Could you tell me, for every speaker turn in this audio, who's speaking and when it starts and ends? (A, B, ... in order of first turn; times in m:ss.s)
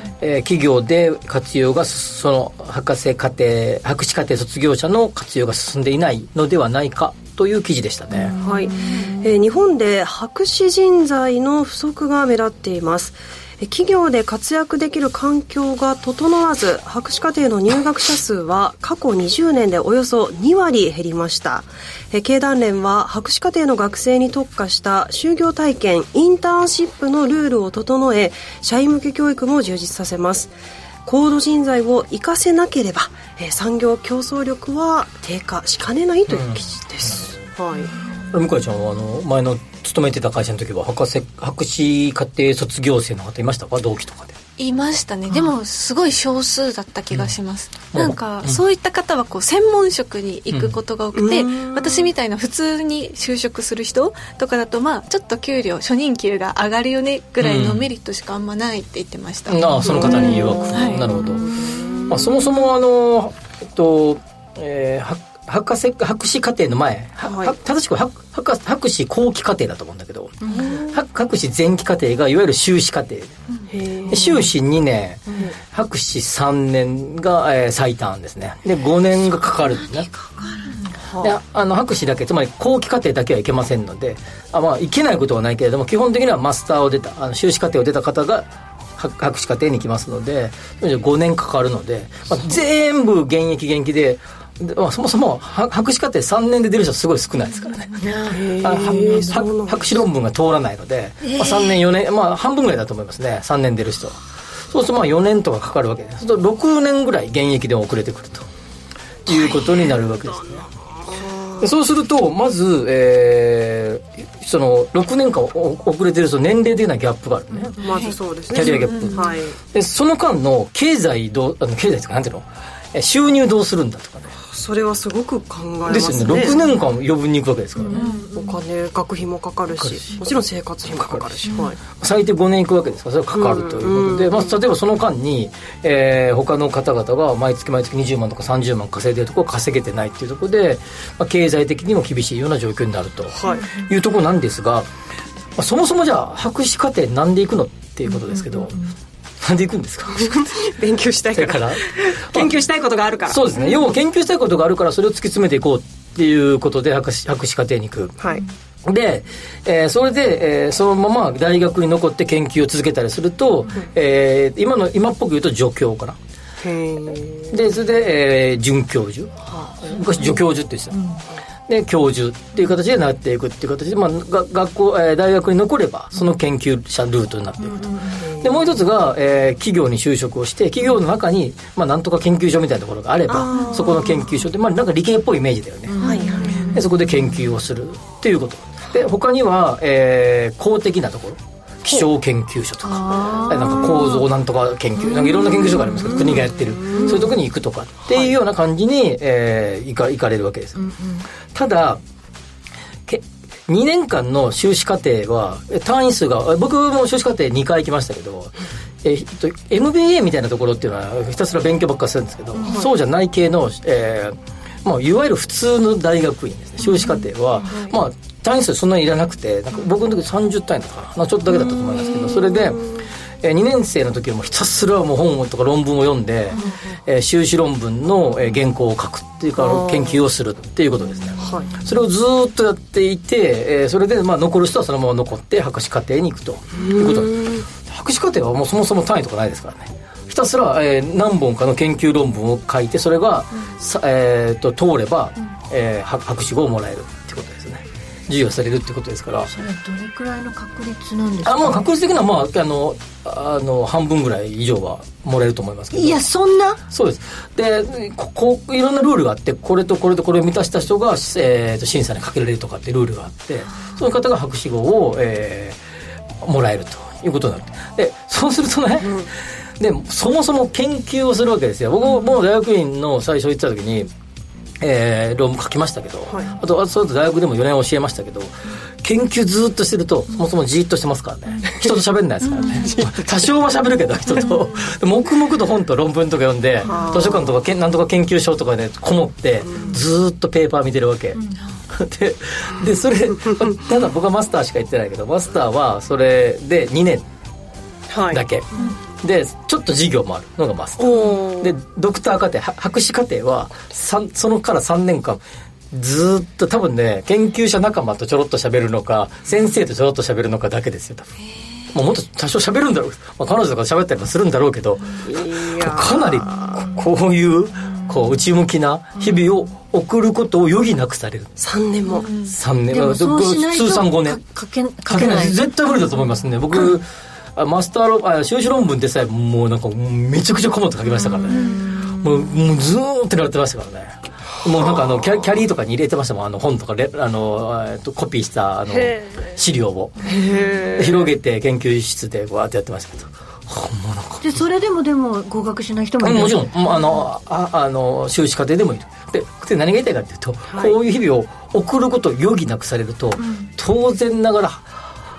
0:00.2-0:08.4 A
0:08.2-0:09.2 B
0:08.4-0:30.5 C
0:31.0-0:37.9 C
0:36.3-0:37.3 A
0:38.3-0:44.4 A
0:44.6-1:01.0 D
0:47.9-0:48.6 A
0:50.5-0:50.8 A
0:51.1-0:52.1 C
0:57.4-0:57.9 A
0:59.5-1:01.5 A
0:59.8-1:02.2 C
1:02.1-1:10.4 A
1:07.2-1:07.6 C
1:10.4-1:10.7 B
1:10.6-1:10.9 C
1:10.9-1:13.4 A
1:13.7-1:14.3 C
1:14.1-1:20.1 A
1:19.9-1:20.7 B
1:21.1-1:21.4 C
1:21.2-1:44.2 A
1:38.0-1:39.3 B
1:38.3-1:40.0 C
1:41.2-1:41.7 B
1:44.7-1:48.4 A
1:49.3-1:50.7 A
1:50.8-1:51.7 C
1:51.6-1:57.8 A
1:57.8-1:59.6 C
1:57.9-1:59.2 D
1:58.5-2:04.4 A
2:04.5-2:06.6 C
2:05.9-2:08.1 A
2:07.8-2:08.5 B
2:08.0-2:08.3 D
2:08.4-2:11.8 C
2:09.8-2:10.2 A
2:10.9-2:24.9 A
2:13.3-2:14.6 C
2:23.4-2:23.7 C
2:25.6-2:28.8 A
2:28.2-2:28.9 B
2:29.4-2:30.6 A
2:30.2-2:33.5 C
2:31.3-2:32.6 A
2:33.3-2:38.2 A
2:38.8-2:46.2 A
2:46.6-2:47.6 C
2:47.5-2:49.3 A
2:49.5-2:50.0 C
2:49.8-2:51.0 A
2:50.9-2:51.2 B
2:51.7-3:06.0 A
2:57.6-2:58.2 B
3:03.3-3:04.0 C
3:05.9-3:07.3 B
3:06.0-3:06.7 C
3:06.7-3:20.8 A
3:12.9-3:14.2 B
3:15.0-3:16.4 B
3:16.1-3:17.2 C
3:16.9-3:17.3 B
3:20.8-3:21.2 B
3:21.5-3:22.0 A
3:23.1-3:42.8 A
3:41.5-3:43.0 C
3:43.4-4:09.5 A
3:49.6-3:50.2 C
3:51.4-3:51.7 C
3:56.8-3:57.7 C
4:09.5-4:11.9 B
4:11.4-4:16.3 A
4:15.9-4:16.8 B
4:16.9-4:25.8 A
4:26.4-4:34.1 A
4:29.0-4:29.3 C
4:34.8-4:51.4 A
4:42.6-4:42.9 B
4:42.8-4:43.2 C
4:46.9-4:47.6 C
4:49.7-4:50.0 C
4:51.9-4:57.3 A
4:58.1-4:58.4 C
4:58.3-4:58.7 A
4:59.2-5:05.4 A
5:01.0-5:01.8 C
5:05.9-5:11.3 A
5:11.9-5:15.2 A
5:15.2-5:16.7 C
5:15.8-5:21.6 A
5:21.6-5:22.3 C
5:22.2-5:22.5 D
5:22.5-5:24.4 A
5:22.9-5:25.6 B
5:25.1-5:31.6 A
5:31.3-5:32.6 B
5:31.5-5:31.8 D
5:32.2-5:40.3 A
5:34.8-5:35.1 C
5:40.3-5:41.3 C
5:41.0-5:44.6 A
5:44.4-5:47.1 B
5:46.2-5:54.9 A
5:50.7-5:51.0 C
5:53.4-5:53.7 B